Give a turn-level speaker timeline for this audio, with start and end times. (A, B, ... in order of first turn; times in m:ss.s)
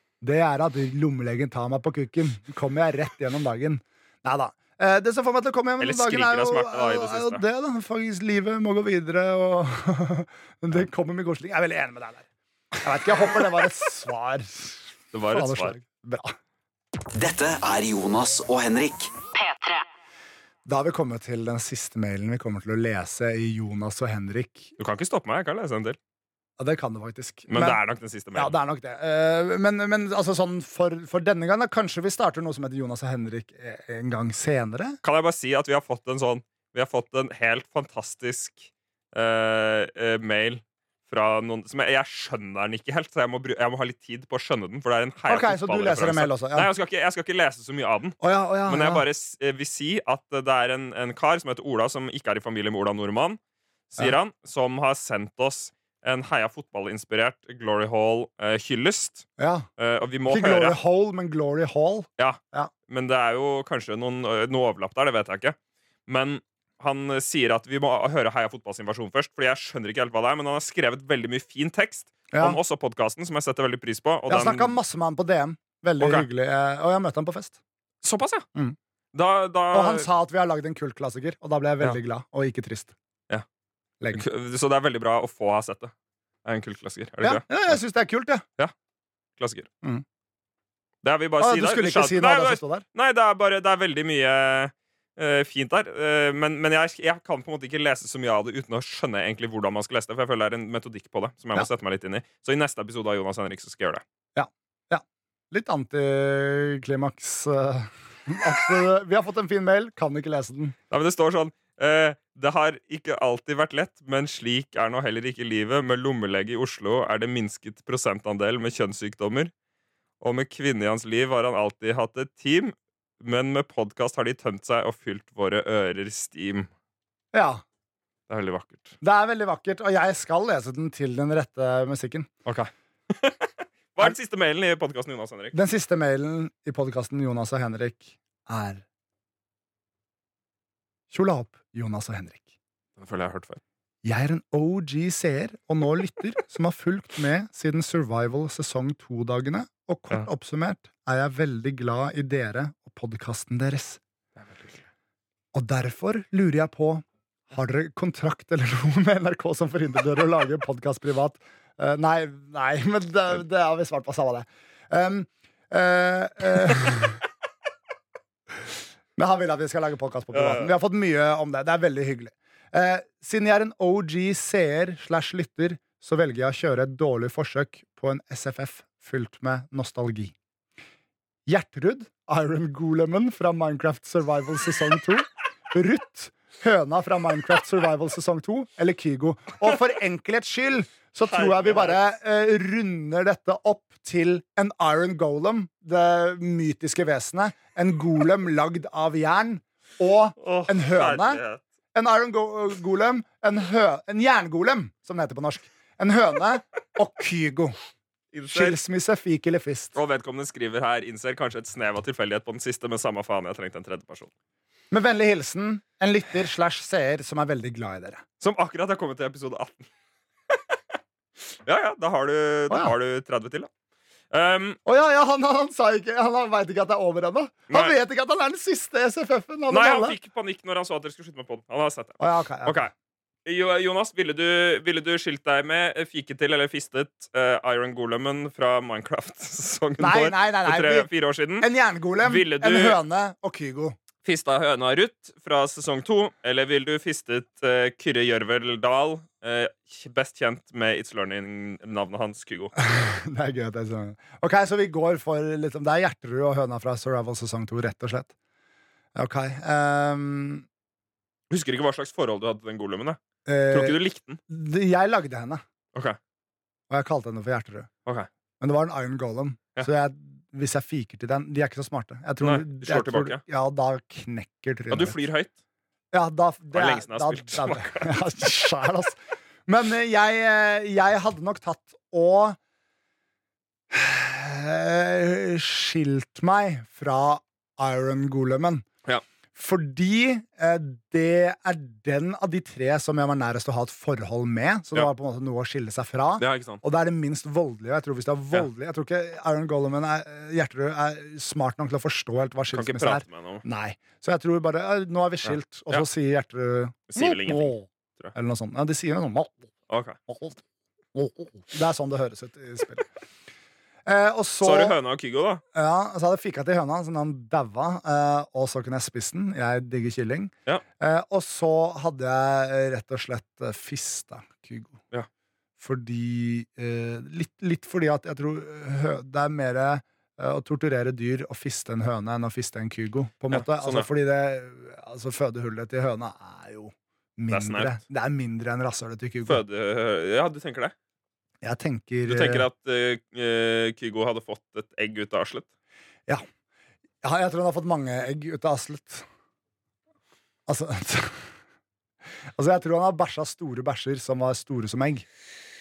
0:00.2-0:12.2 A
0:05.8-0:07.4 B
0:12.8-0:16.4 A
0:15.1-0:15.8 B
0:17.2-0:19.1 C
0:20.7-0:24.7 A
0:24.8-0:26.0 B
0:26.6-0:27.8 A
0:27.5-0:28.6 B
0:28.4-0:35.0 A
0:35.0-0:53.4 B
0:45.3-0:46.7 A
0:48.2-0:49.0 A
0:53.9-1:00.8 B
0:59.4-0:59.7 A
1:00.3-1:02.7 A
1:02.2-1:05.6 B
1:06.1-1:14.7 B
1:12.3-1:12.6 A
1:14.3-1:17.6 A
1:16.0-1:16.3 B
1:18.0-1:18.5 B
1:19.1-1:20.1 B
1:19.7-1:22.9 A
1:24.1-1:25.9 B
1:26.4-1:27.8 B
1:27.2-1:28.4 A
1:29.4-1:29.7 B
1:31.0-1:44.0 B
1:31.4-1:32.8 A
1:44.4-1:50.8 A
1:50.9-1:59.5 B
2:00.2-2:06.7 B
2:07.3-2:07.6 A
2:08.3-2:09.0 B
2:09.0-2:12.3 A
2:12.5-2:15.6 B
2:15.5-2:18.8 A
2:21.1-2:22.4 A
2:23.0-2:23.6 B
2:24.0-2:34.0 A
2:34.4-2:34.8 B
2:35.5-2:47.2 A
2:49.2-3:00.4 A
2:50.3-2:50.7 B
3:01.5-3:21.4 A
3:11.3-3:12.0 B
3:20.4-3:21.6 B
3:21.9-3:27.8 A
3:28.3-3:28.8 B
3:28.5-3:30.0 A
3:30.0-3:34.3 B
3:34.9-3:38.2 A
3:38.4-3:39.9 B
3:40.5-3:40.8 B
3:41.6-3:43.7 B
3:42.7-3:43.0 A
3:44.3-3:44.8 B
3:44.9-3:50.2 A
3:49.7-3:52.9 B
3:52.2-3:52.8 A
3:53.4-4:01.7 B
4:00.0-4:04.0 A
4:02.2-4:03.0 B
4:04.2-4:12.7 B
4:12.8-4:18.3 A
4:19.2-4:20.6 A
4:21.5-4:24.4 B
4:23.5-4:25.6 A
4:26.9-4:27.9 A
4:28.6-4:35.2 A
4:32.4-4:33.4 B
4:34.9-4:35.5 B
4:36.1-4:42.6 A
4:36.7-4:38.2 B
4:43.9-4:48.9 A
4:49.6-5:09.6 A
4:56.4-4:56.8 B
5:02.7-5:03.6 B
5:05.4-5:06.1 B
5:07.1-5:08.3 B
5:09.9-5:10.2 B
5:10.3-5:10.6 A
5:11.1-5:13.1 A
5:14.1-5:15.0 A
5:14.6-5:15.6 B
5:15.7-5:25.0 A
5:25.8-5:39.6 A
5:33.5-5:34.1 B
5:37.5-5:38.0 B
5:39.5-5:40.9 B
5:41.6-5:42.7 A
5:42.2-5:45.7 B
5:47.2-5:49.3 A
5:50.7-5:51.5 A
5:52.6-5:55.3 A